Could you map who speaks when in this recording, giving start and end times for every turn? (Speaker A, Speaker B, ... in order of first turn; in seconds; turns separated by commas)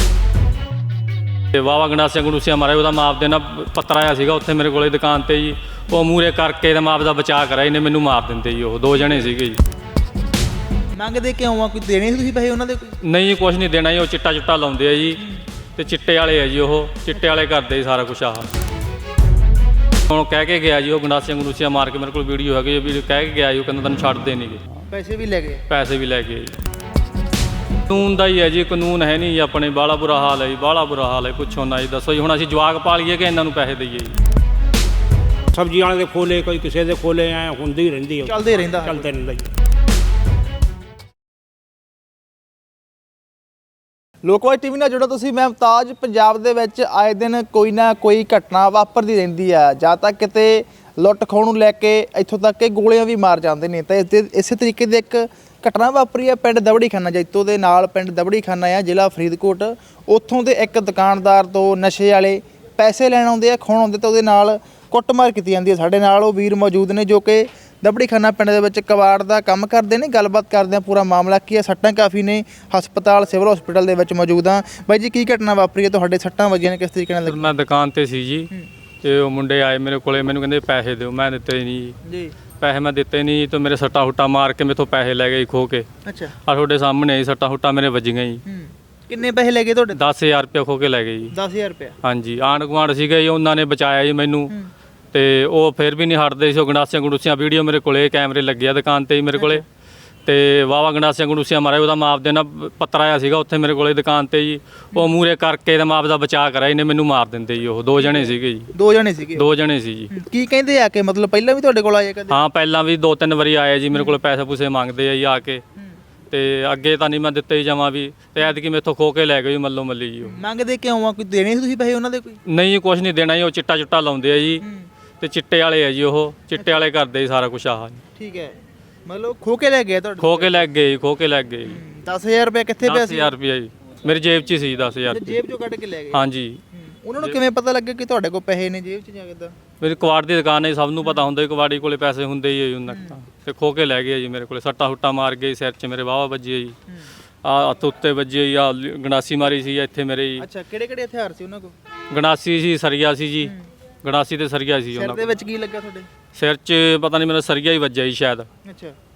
Speaker A: 1.5-9.6, Speaker B: 9.0-9.3, Speaker B: 10.9-13.0, Speaker A: 13.0-15.2, Speaker B: 15.2-15.4, Speaker A: 15.7-18.5, Speaker B: 17.1-17.4, Speaker A: 20.1-24.6, Speaker B: 24.9-25.6, Speaker A: 25.7-26.5, Speaker A: 27.9-34.1, Speaker C: 35.5-39.5, Speaker B: 38.2-39.1, Speaker B: 44.2-77.5, Speaker A: 77.2-78.5, Speaker A: 79.0-81.9, Speaker B: 82.0-82.3, Speaker A: 82.6-85.8, Speaker B: 86.0-86.3, Speaker A: 86.5-88.4, Speaker B: 88.5-90.0, Speaker A: 89.9-91.3, Speaker B: 91.3-92.0, Speaker A: 92.0-94.5, Speaker A: 95.1-99.6, Speaker B: 99.3-99.6, Speaker A: 100.2-108.7, Speaker B: 108.0-109.5, Speaker A: 109.3-110.1, Speaker B: 110.1-112.4, Speaker A: 112.3-115.6, Speaker B: 113.9-114.2, Speaker A: 116.3-120.4, Speaker B: 120.2-122.4, Speaker A: 122.5-124.6, Speaker B: 124.6-124.9, Speaker A: 125.2-128.0, Speaker B: 126.5-126.8, Speaker B: 128.2-130.7, Speaker A: 130.2-131.8, Speaker B: 131.6-133.3, Speaker A: 132.8-135.4, Speaker B: 135.1-139.5, Speaker A: 136.1-136.6, Speaker A: 139.8-146.7, Speaker B: 141.0-141.3, Speaker B: 142.9-143.2, Speaker A: 147.4-150.4, Speaker B: 150.4-151.7, Speaker A: 152.1-155.2, Speaker B: 153.4-153.7, Speaker B: 154.9-156.1, Speaker A: 156.3-158.5, Speaker B: 158.6-158.9